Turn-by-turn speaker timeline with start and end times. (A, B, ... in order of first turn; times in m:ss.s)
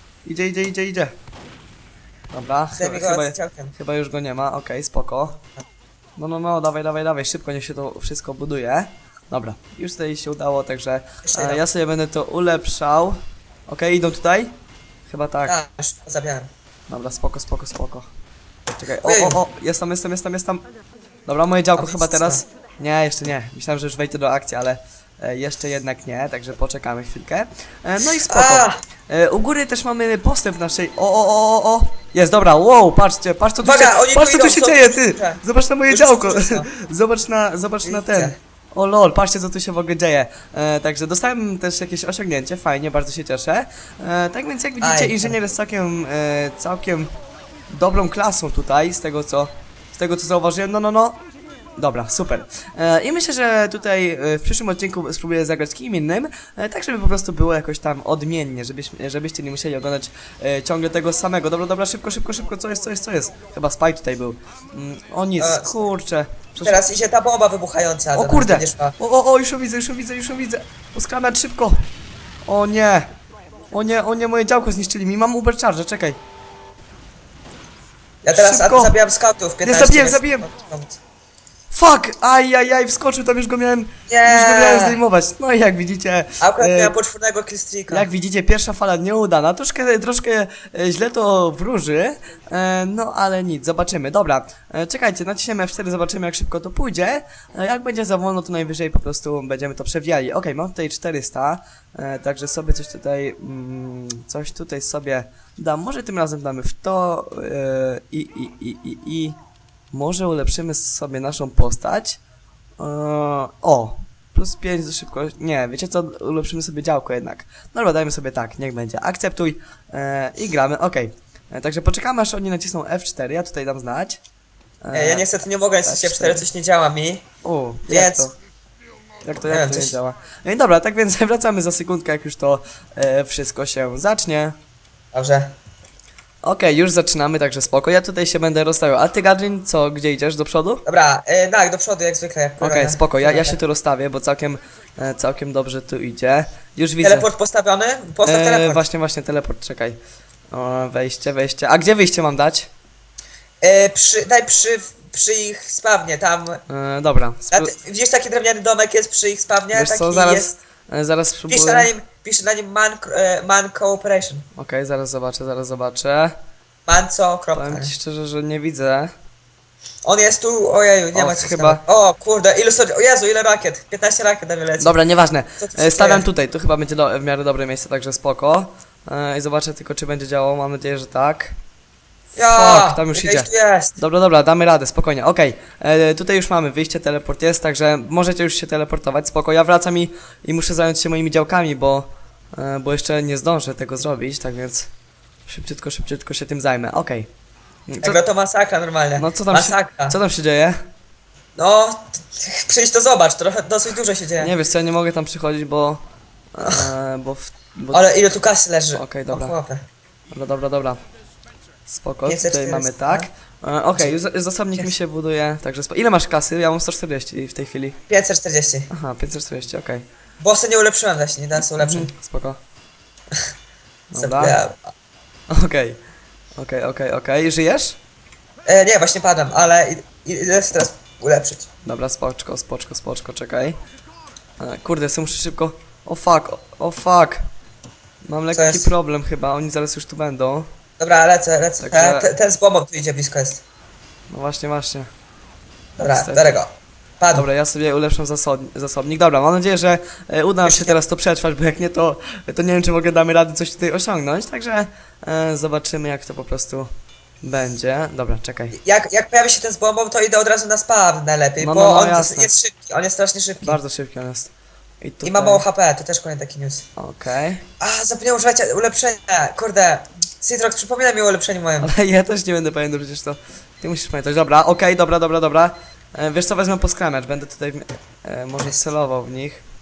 0:00.2-0:01.1 A
0:02.3-0:05.4 A
0:02.7-0:03.7 B
0:06.2-0:14.6 A
0:11.2-0:11.6 B
0:15.1-0:15.6 A
0:15.4-0:16.5 B
0:16.9-0:18.1 A
0:18.8-0:20.6 A
0:19.0-0:19.4 B
0:21.3-0:47.1 A
0:21.8-0:22.4 B
0:28.2-0:28.8 B
0:33.6-0:36.7 B
0:37.8-0:38.4 B
0:44.8-0:45.4 B
0:47.7-0:51.2 A
0:51.8-1:06.9 A
1:05.4-1:05.8 B
1:06.6-1:09.0 B
1:08.1-1:11.8 A
1:12.4-1:13.1 A
1:13.7-1:16.2 A
1:18.2-1:21.0 B
1:18.3-1:18.9 A
1:19.6-1:20.4 A
1:21.7-1:26.9 A
1:24.1-1:25.0 B
1:26.4-1:28.1 B
1:27.9-1:49.4 A
1:49.9-1:52.2 A
1:52.8-2:04.2 A
2:04.8-2:05.3 A
2:04.9-2:07.2 B
2:05.8-2:06.4 A
2:07.4-2:08.3 A
2:07.9-2:08.3 B
2:09.2-2:14.5 A
2:09.5-2:09.9 B
2:15.1-2:15.5 B
2:16.4-2:20.8 A
2:20.8-2:23.6 B
2:22.6-2:27.3 A
2:27.0-2:28.8 B
2:28.2-2:30.0 A
2:30.5-2:32.7 A
2:33.6-2:36.6 B
2:36.7-2:37.7 A
2:37.5-2:40.5 B
2:39.7-2:41.9 A
2:41.5-2:44.4 B
2:44.6-2:46.3 A
2:46.9-2:47.9 B
2:47.5-2:49.1 A
2:50.0-2:55.0 B
2:51.1-2:51.8 A
2:54.8-3:01.6 A
2:55.6-2:56.2 B
3:02.3-3:14.9 A
3:02.4-3:04.0 B
3:15.5-3:17.3 A
3:17.9-3:18.2 A
3:18.0-3:20.2 B
3:19.2-3:20.8 A
3:21.6-3:24.5 B
3:24.4-3:26.0 A
3:26.5-3:28.0 A
3:26.6-3:26.9 B
3:27.9-3:29.8 B
3:28.9-3:29.5 A
3:30.3-3:31.0 A
3:31.9-3:38.0 A
3:32.2-3:33.3 B
3:38.1-3:38.9 B
3:38.9-3:40.0 A
3:40.4-3:42.1 B
3:41.8-3:42.6 A
3:44.1-3:44.6 A
3:44.1-3:44.8 B
3:45.5-3:46.0 A
3:46.6-3:48.0 A
3:48.6-3:51.7 B
3:51.8-3:53.8 A
3:54.6-3:57.4 A
3:58.2-4:00.7 A
3:58.5-3:58.9 B
4:01.0-4:03.6 B
4:01.8-4:02.3 A
4:04.3-4:05.1 A
4:06.0-4:07.5 B
4:06.0-4:06.6 A
4:07.3-4:16.9 A
4:10.6-4:11.0 B
4:17.4-4:18.8 A
4:18.7-4:23.8 B
4:21.6-4:22.5 A
4:23.6-4:25.6 A
4:25.2-4:26.8 B
4:27.0-4:27.6 A
4:27.8-4:31.9 B
4:31.8-4:39.6 A